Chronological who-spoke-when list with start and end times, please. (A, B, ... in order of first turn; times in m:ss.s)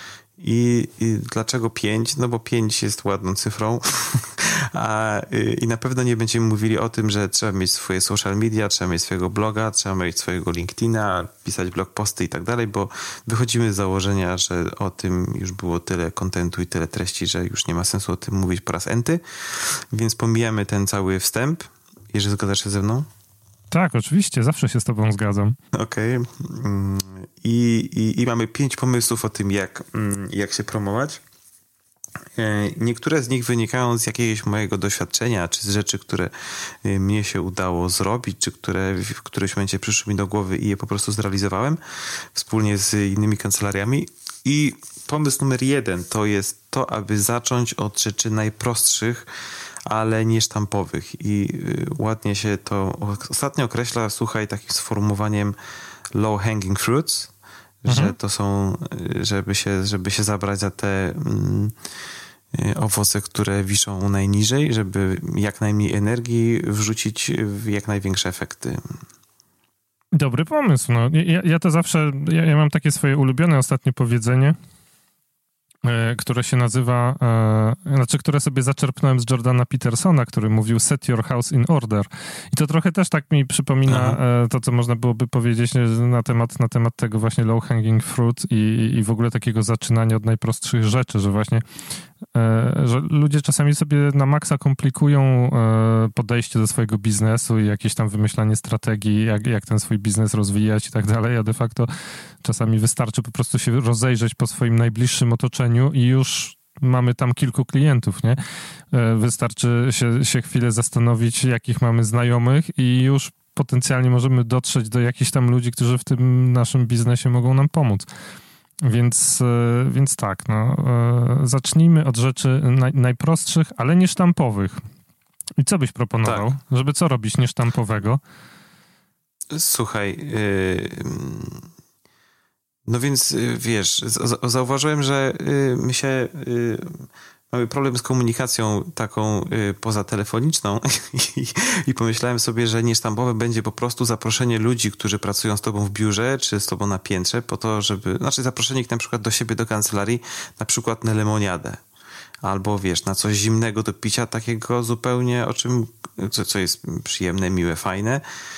0:00.4-0:23.1 A
0:23.7-0:25.6 B
0:25.7-0:31.2 A
0:32.4-0:36.3 A
0:36.8-0:41.8 A
0:42.3-0:49.3 A
0:49.9-0:55.6 A
0:56.1-0:57.3 A
0:57.8-1:01.7 A
0:57.9-0:58.2 B
1:02.5-1:08.8 A
1:10.1-1:14.6 B
1:15.8-1:31.6 B
1:23.9-1:24.2 A
1:32.3-1:41.9 B
1:42.4-1:48.4 B
1:48.9-1:58.1 B
1:58.8-2:04.8 B
2:05.6-2:08.2 B
2:06.2-2:06.5 A
2:09.5-2:11.7 A
2:12.9-2:16.9 A
2:17.5-2:31.8 A
2:32.4-2:38.2 A